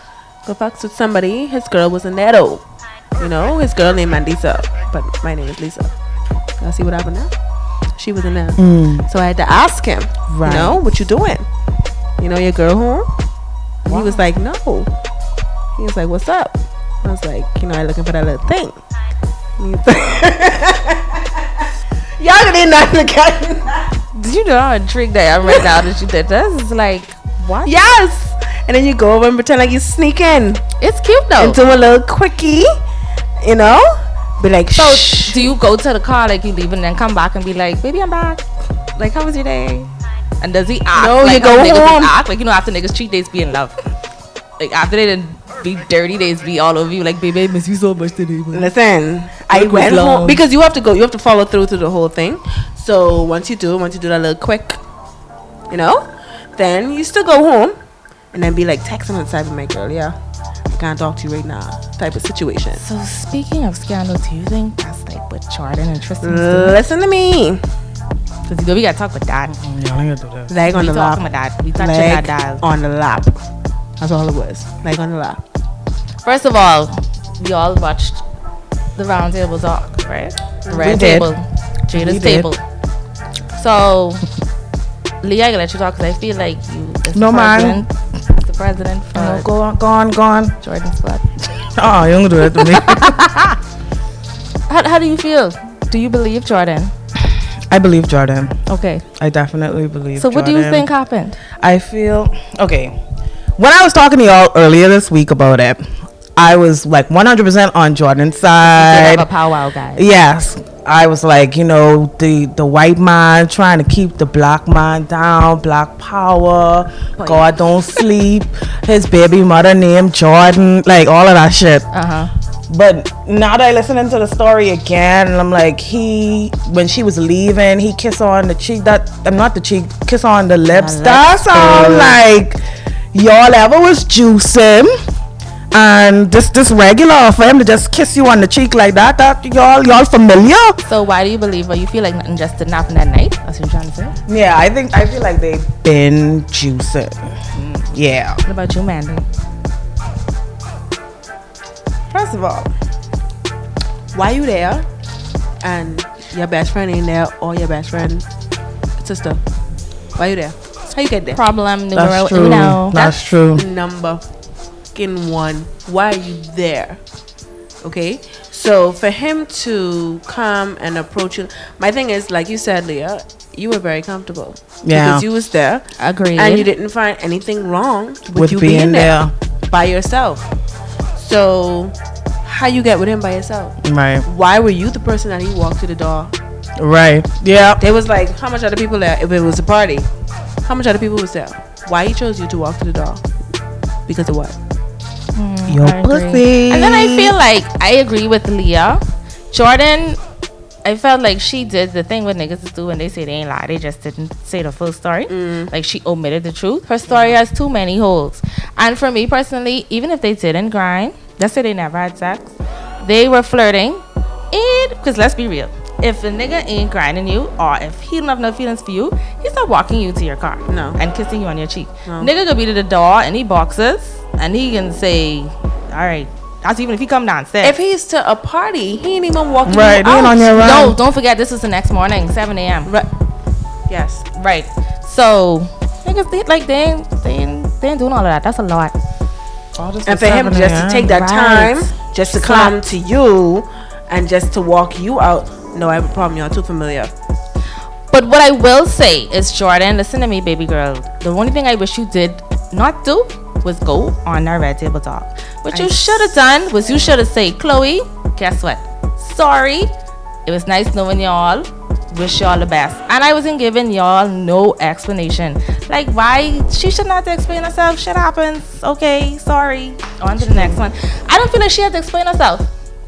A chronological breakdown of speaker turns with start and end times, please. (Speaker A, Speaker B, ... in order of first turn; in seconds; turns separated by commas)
Speaker A: 0.4-2.6, Speaker A: 3.2-5.9, Speaker A: 6.6-7.3, Speaker A: 8.0-11.5, Speaker B: 8.6-9.1, Speaker B: 10.3-10.8, Speaker A: 12.2-13.1, Speaker A: 13.8-14.9, Speaker A: 15.8-18.8, Speaker A: 19.6-21.6, Speaker A: 22.2-23.9, Speaker C: 24.1-27.8, Speaker A: 25.4-25.8, Speaker A: 27.6-30.6, Speaker C: 30.8-31.6, Speaker A: 31.4-32.8, Speaker A: 33.4-35.5, Speaker C: 34.7-38.4, Speaker C: 39.0-39.9, Speaker C: 40.4-43.8, Speaker A: 40.9-42.1, Speaker C: 44.6-48.7, Speaker A: 48.5-54.8, Speaker B: 49.5-50.4, Speaker A: 55.7-57.8, Speaker A: 58.3-60.2, Speaker A: 60.7-62.8, Speaker C: 62.7-66.8, Speaker A: 66.2-67.6, Speaker C: 68.5-69.5, Speaker B: 69.5-70.6, Speaker A: 70.5-73.4, Speaker C: 70.6-72.6, Speaker A: 74.0-75.4, Speaker C: 76.2-78.2, Speaker C: 79.0-82.6, Speaker A: 80.7-81.0, Speaker B: 80.8-81.3, Speaker B: 81.9-82.5, Speaker C: 83.5-84.2, Speaker C: 85.2-89.5, Speaker B: 87.1-87.8, Speaker B: 89.1-90.5, Speaker C: 90.6-91.2, Speaker B: 91.5-93.5, Speaker C: 92.6-93.3, Speaker C: 94.7-96.9, Speaker B: 97.7-98.6, Speaker C: 98.7-99.0, Speaker B: 99.2-100.9, Speaker C: 100.2-101.4, Speaker B: 101.6-103.0, Speaker B: 103.6-105.8, Speaker B: 106.3-109.3, Speaker C: 108.6-110.1, Speaker B: 110.0-121.9, Speaker C: 117.2-117.4, Speaker C: 121.9-122.3, Speaker B: 122.7-132.6, Speaker C: 130.7-132.2, Speaker B: 133.1-134.9, Speaker B: 135.7-140.8, Speaker C: 140.8-144.2, Speaker B: 144.3-147.3, Speaker C: 147.5-147.9, Speaker B: 147.9-148.4, Speaker C: 148.4-149.2, Speaker A: 152.1-152.7, Speaker A: 154.1-154.9, Speaker A: 155.6-158.2, Speaker A: 159.0-159.4, Speaker A: 160.2-161.4, Speaker C: 161.3-163.2, Speaker B: 161.9-163.7, Speaker A: 163.5-164.2, Speaker A: 164.9-167.0, Speaker A: 167.8-179.2, Speaker B: 174.8-175.2, Speaker C: 176.0-176.7, Speaker B: 178.3-179.3, Speaker A: 179.7-180.5, Speaker A: 181.1-186.3, Speaker B: 183.8-184.3, Speaker B: 186.8-187.8, Speaker A: 187.8-190.1, Speaker A: 190.6-193.2, Speaker A: 194.1-194.6, Speaker C: 195.3-200.2, Speaker B: 195.7-197.3, Speaker C: 200.8-227.8, Speaker A: 205.3-205.7, Speaker A: 220.7-221.0, Speaker A: 222.1-222.3, Speaker A: 227.6-230.5, Speaker B: 229.6-231.0, Speaker C: 230.1-232.9, Speaker A: 233.9-234.2, Speaker C: 234.3-238.9, Speaker B: 239.8-241.2, Speaker A: 240.1-247.1, Speaker C: 241.0-242.8, Speaker C: 248.1-259.9, Speaker A: 255.7-256.4, Speaker C: 260.4-272.7, Speaker A: 270.5-270.7